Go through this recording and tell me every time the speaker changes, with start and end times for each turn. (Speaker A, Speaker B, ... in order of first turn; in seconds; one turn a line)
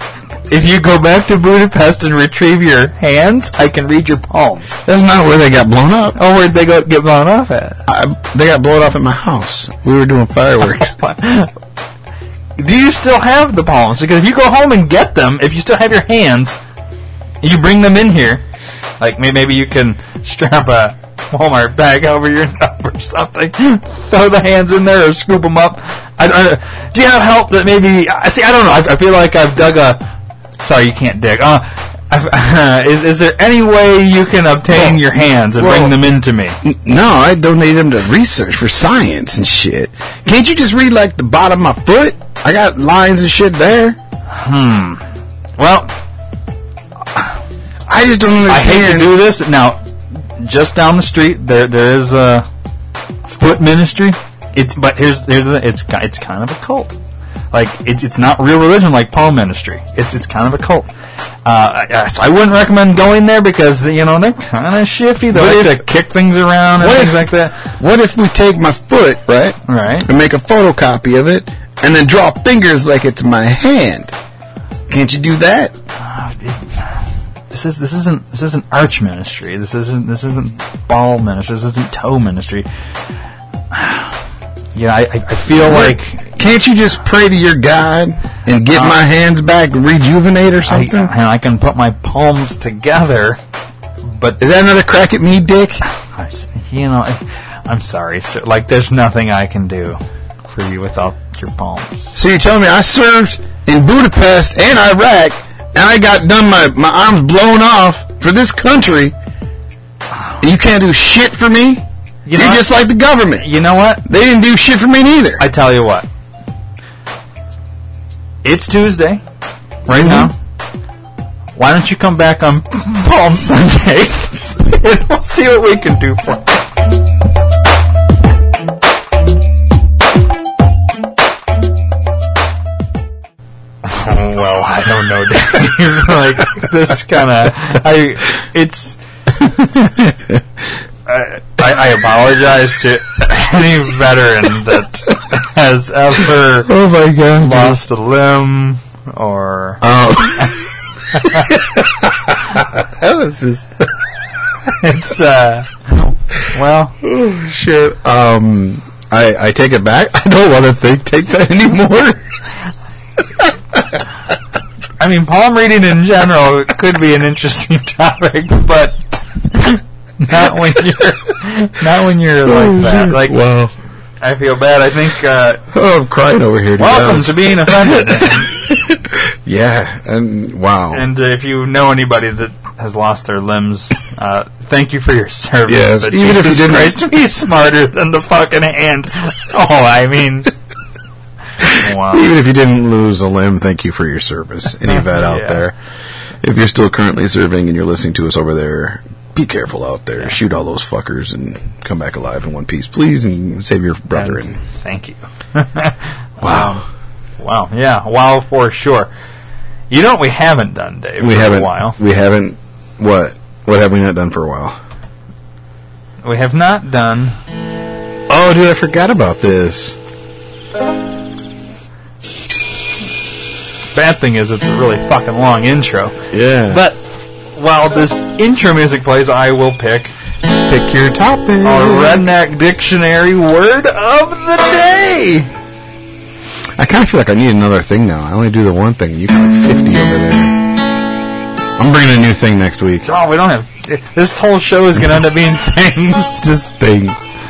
Speaker A: 0.5-4.8
Speaker B: 4.8-6.2
Speaker A: 6.2-7.8
Speaker B: 7.9-10.9
Speaker A: 10.8-11.5
Speaker A: 12.6-16.6
Speaker A: 17.4-18.4
Speaker A: 19.0-30.0
Speaker A: 30.6-36.6
Speaker B: 34.7-35.0
Speaker B: 35.6-36.0
Speaker B: 36.6-44.0
Speaker A: 44.3-45.0
Speaker A: 45.6-45.9
Speaker B: 47.9-49.1
Speaker A: 48.5-52.5
Speaker A: 53.3-57.0
Speaker A: 57.5-60.9
Speaker A: 61.4-67.7
Speaker B: 65.3-65.8
Speaker B: 66.8-74.1
Speaker A: 69.7-70.1
Speaker B: 74.9-75.7
Speaker A: 76.0-76.9
Speaker A: 77.5-82.7
Speaker A: 83.7-84.2
Speaker A: 84.7-86.3
Speaker B: 85.5-91.1
Speaker A: 88.7-89.0
Speaker A: 90.7-93.4
Speaker A: 94.0-94.4
Speaker B: 94.4-95.8
Speaker A: 95.9-102.2
Speaker B: 102.1-109.1
Speaker B: 110.4-113.5
Speaker A: 112.2-112.8
Speaker A: 113.4-114.0
Speaker B: 114.0-115.5
Speaker A: 115.4-116.1
Speaker A: 118.4-119.2
Speaker A: 119.9-120.3
Speaker B: 119.9-120.3
Speaker A: 121.5-126.6
Speaker A: 133.8-139.0
Speaker B: 140.0-140.4
Speaker A: 141.1-146.7
Speaker B: 146.7-147.8
Speaker A: 147.4-149.8
Speaker B: 149.8-153.9
Speaker A: 154.7-156.9
Speaker B: 157.0-162.3
Speaker A: 165.0-173.4
Speaker B: 172.4-173.7
Speaker A: 174.2-175.6
Speaker B: 175.7-181.0
Speaker A: 176.8-178.5
Speaker A: 180.9-190.5
Speaker B: 185.7-187.0
Speaker B: 191.6-195.8
Speaker A: 191.7-192.2
Speaker A: 194.9-195.6
Speaker B: 196.4-204.6
Speaker A: 204.1-206.8
Speaker B: 206.4-206.8
Speaker A: 207.4-209.1
Speaker A: 209.9-212.0
Speaker B: 211.2-214.8
Speaker A: 216.2-217.3
Speaker B: 218.3-220.0
Speaker A: 223.9-226.2
Speaker B: 226.3-226.8
Speaker A: 226.7-227.0
Speaker A: 227.5-230.1
Speaker B: 230.7-232.2
Speaker A: 231.6-235.5
Speaker B: 236.8-240.6
Speaker B: 241.8-243.0
Speaker A: 243.0-246.4
Speaker B: 246.4-247.2